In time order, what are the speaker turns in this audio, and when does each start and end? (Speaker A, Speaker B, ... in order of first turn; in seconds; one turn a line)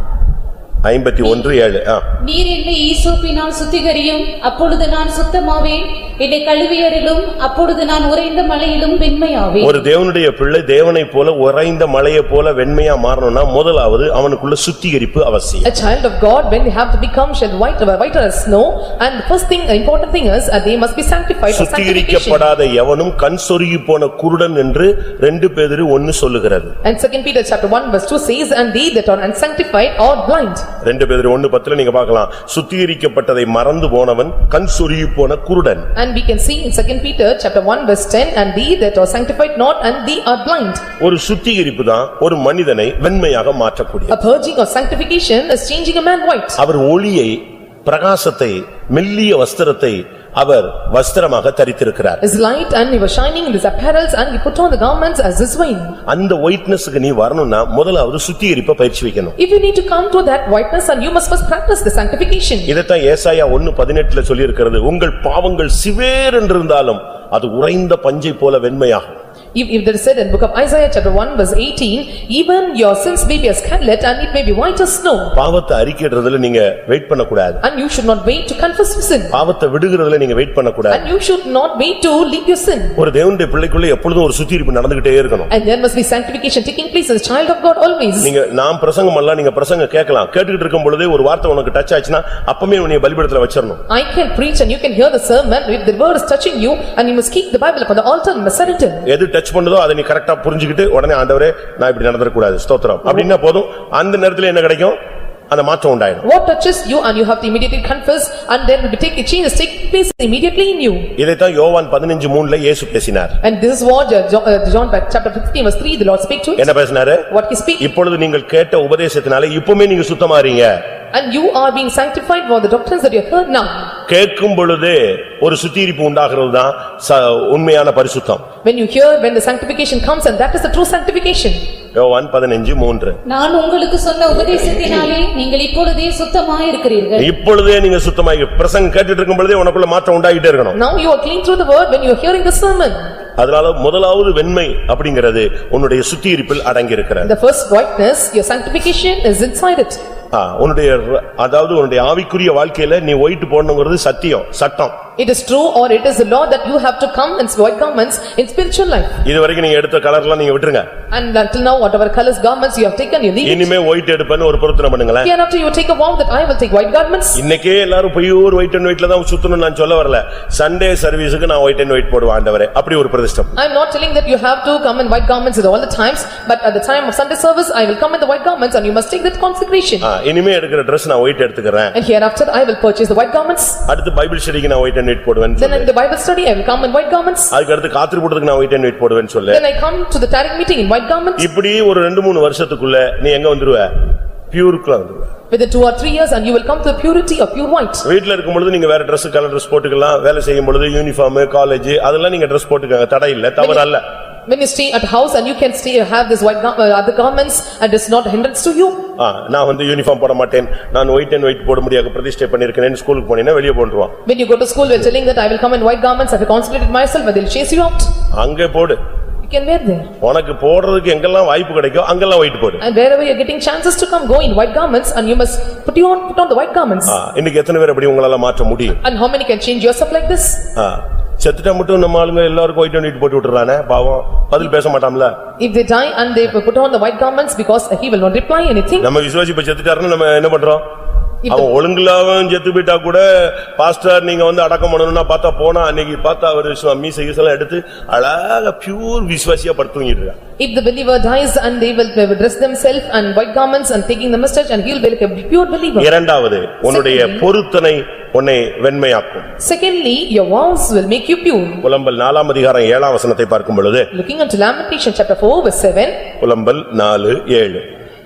Speaker A: 0.8-2.0
Speaker B: 2.2-9.9
Speaker A: 9.6-15.7
Speaker C: 15.6-22.5
Speaker A: 21.5-26.7
Speaker C: 26.8-30.6
Speaker A: 30.8-35.9
Speaker C: 35.9-40.8
Speaker A: 41.0-44.1
Speaker C: 44.1-46.6
Speaker A: 46.6-52.2
Speaker C: 52.2-56.0
Speaker A: 56.1-59.3
Speaker C: 59.4-62.7
Speaker A: 62.7-69.2
Speaker C: 69.5-75.4
Speaker A: 75.3-77.6
Speaker C: 77.6-79.3
Speaker A: 79.3-81.1
Speaker C: 80.9-83.0
Speaker A: 83.0-85.5
Speaker C: 85.5-88.3
Speaker A: 88.2-93.8
Speaker C: 93.9-99.1
Speaker A: 99.0-105.0
Speaker A: 105.5-106.2
Speaker C: 106.2-111.1
Speaker A: 111.2-113.4
Speaker C: 113.4-116.7
Speaker A: 116.6-117.3
Speaker C: 117.3-117.9
Speaker A: 117.8-120.8
Speaker C: 121.1-123.9
Speaker A: 124.1-128.4
Speaker C: 128.6-131.6
Speaker A: 131.9-133.2
Speaker B: 133.2-137.3
Speaker A: 137.2-140.8
Speaker C: 140.7-143.1
Speaker A: 143.4-147.3
Speaker C: 147.2-150.0
Speaker A: 150.3-154.9
Speaker C: 155.2-159.2
Speaker A: 159.2-160.9
Speaker C: 161.1-163.7
Speaker A: 163.4-165.3
Speaker C: 165.2-167.4
Speaker A: 167.3-173.5
Speaker C: 173.6-180.1
Speaker A: 180.0-181.9
Speaker C: 181.9-183.8
Speaker A: 183.9-185.9
Speaker C: 185.6-187.5
Speaker A: 187.5-189.6
Speaker C: 189.5-191.5
Speaker A: 191.4-193.9
Speaker A: 194.5-195.3
Speaker C: 195.5-198.1
Speaker A: 198.0-204.0
Speaker C: 203.6-203.9
Speaker C: 204.5-209.1
Speaker A: 209.2-214.1
Speaker C: 214.2-218.1
Speaker A: 218.3-219.0
Speaker C: 219.4-220.1
Speaker A: 220.2-222.8
Speaker C: 222.8-227.2
Speaker A: 227.1-229.0
Speaker C: 229.0-230.7
Speaker A: 230.8-235.3
Speaker C: 235.6-239.1
Speaker A: 239.0-240.8
Speaker C: 241.4-241.7
Speaker A: 241.5-250.4
Speaker C: 250.6-256.1
Speaker A: 255.9-259.5
Speaker C: 256.9-257.5
Speaker C: 259.6-261.8
Speaker A: 261.8-264.1
Speaker C: 264.1-266.2
Speaker A: 266.4-267.8